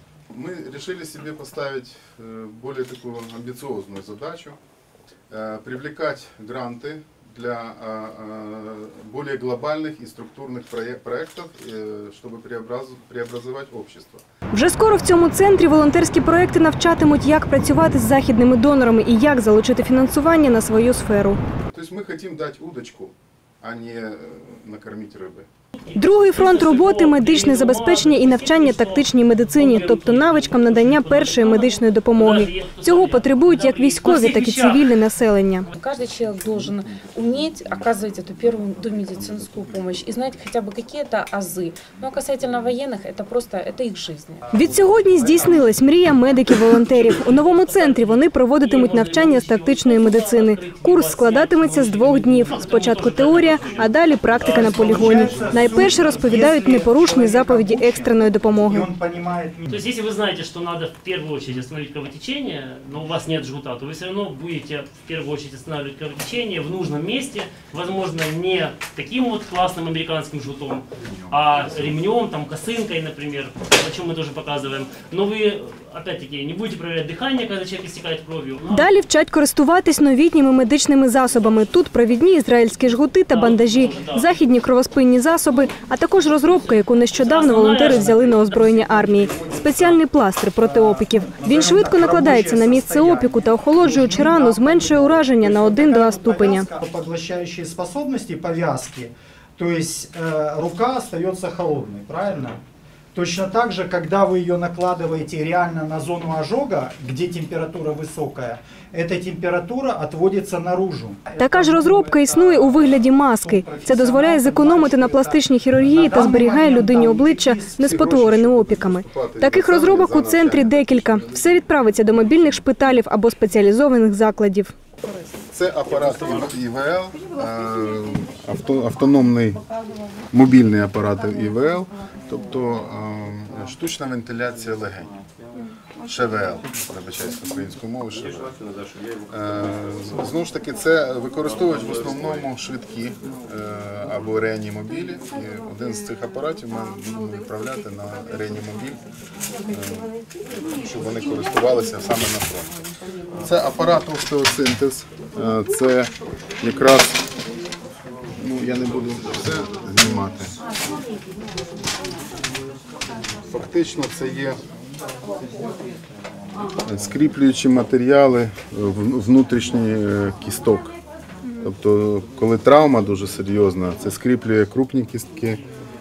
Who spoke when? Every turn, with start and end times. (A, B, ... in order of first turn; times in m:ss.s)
0:00.3-0:04.6 A
0:05.3-0:14.2 A
0:14.5-0:21.4 B
0:21.7-0:25.5 A
0:25.8-0:35.0 C
0:26.0-0:35.7 B
0:35.7-0:44.5 D
0:44.5-0:58.9 B
0:44.6-0:45.8 E
0:47.2-0:55.3 C
0:54.4-0:59.9 E
0:59.7-1:18.9 C
1:11.0-1:11.4 A
1:18.7-1:36.7 B
1:23.3-1:24.4 C
1:26.4-1:30.0 C
1:29.3-1:29.7 E
1:30.6-1:42.6 E
1:43.1-1:58.0 E
1:51.4-2:04.7 B
1:57.8-2:01.5 A
2:05.5-2:09.6 A
2:10.3-2:15.1 A
2:16.0-2:18.6 A
2:19.3-2:29.0 A
2:29.7-2:30.1 A
2:30.7-2:32.8 A
2:33.4-2:37.3 A
2:38.4-2:40.6 A
2:43.5-2:44.6 A
2:46.8-2:50.9 A
2:51.6-2:55.6 A